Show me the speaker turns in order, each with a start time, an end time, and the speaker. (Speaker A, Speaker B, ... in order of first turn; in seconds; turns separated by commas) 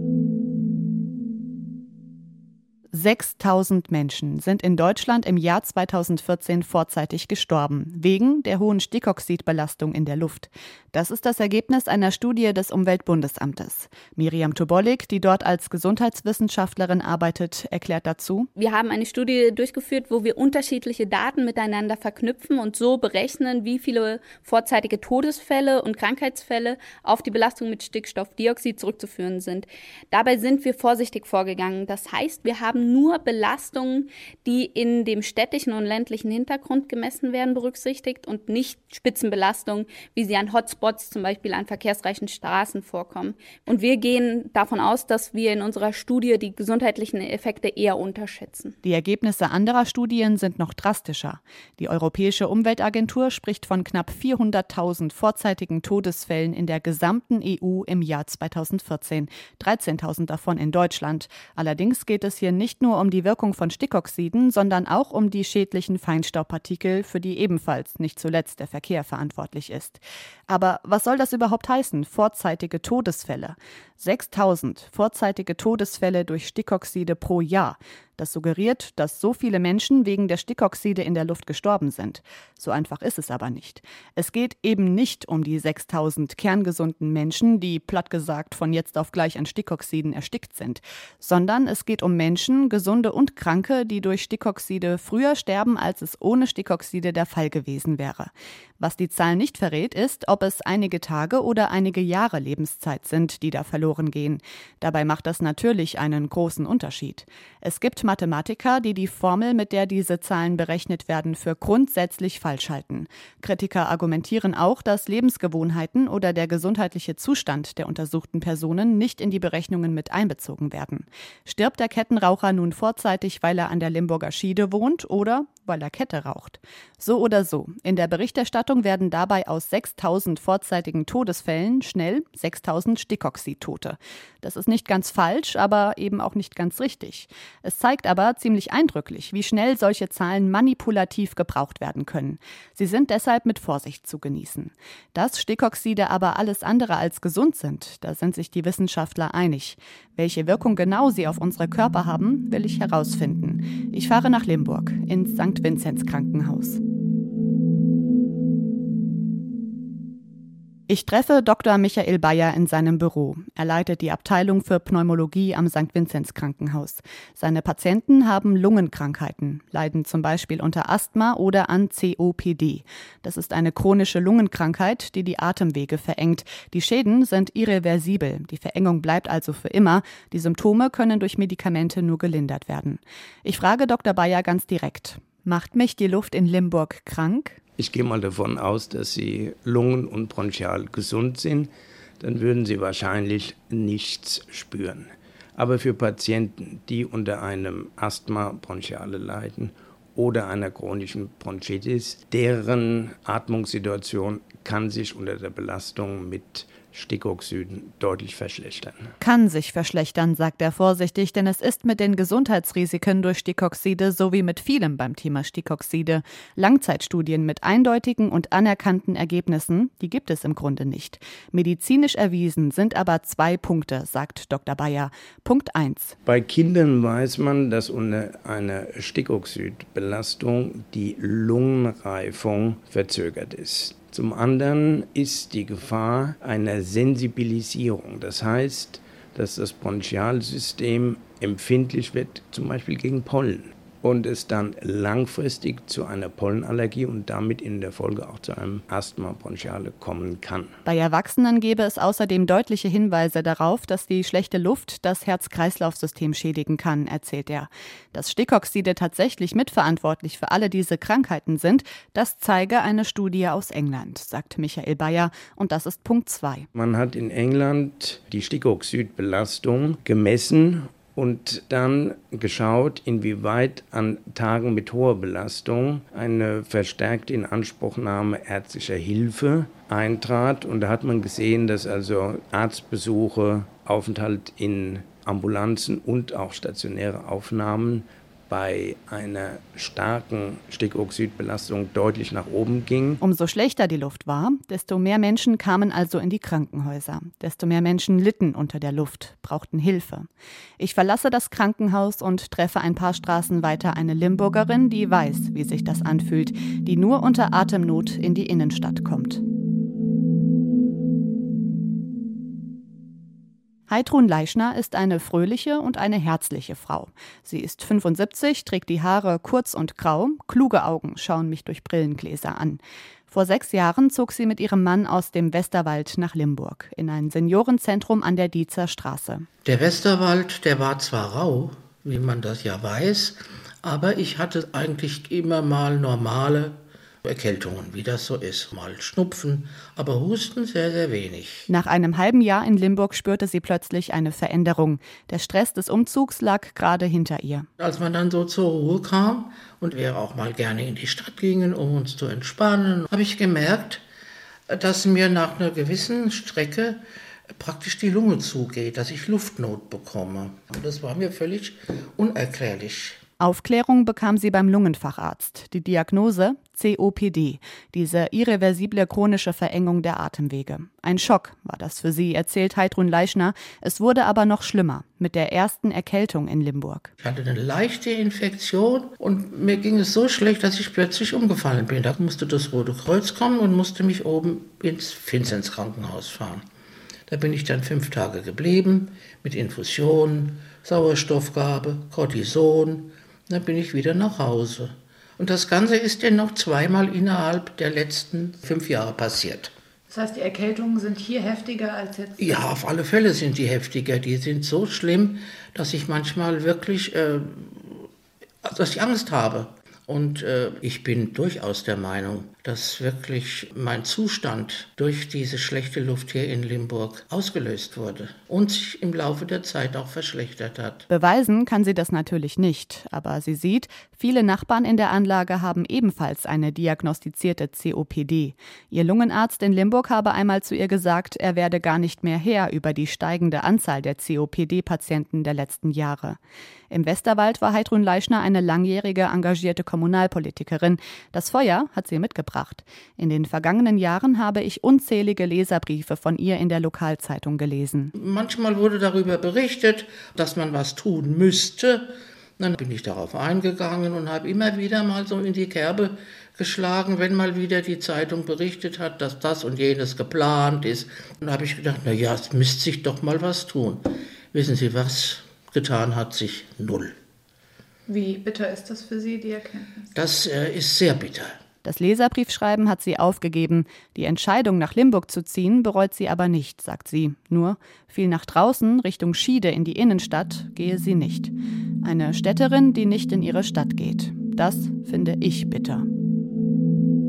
Speaker A: 2.9-18.5, Speaker B: 18.6-48.8, Speaker A: 48.8-156.8, Speaker A: 160.9-187.6, Speaker C: 187.8-209.1, Speaker A: 209.2-226.1, Speaker C: 226.2-250.7, Speaker A: 250.8-266.6, Speaker C: 266.7-293.2, Speaker A: 293.2-300.3, Speaker A: 300.8-309.4, Speaker A: 313.9-329.5, Speaker D: 329.6-341.7, Speaker A: 341.7-347.7, Speaker D: 347.8-354.0, Speaker D: 354.7-363.2, Speaker A: 363.4-377.1, Speaker D: 377.2-386.6, Speaker D: 387.3-399.7, Speaker E: 400.1-402.5, Speaker D: 402.4-408.1, Speaker D: 408.6-421.1, Speaker A: 421.1-436.4, Speaker A: 436.9-448.1, Speaker D: 448.1-467.1, Speaker E: 468.1-470.0, Speaker D: 470.1-471.6, Speaker A: 471.8-481.5, Speaker A: 482.0-486.1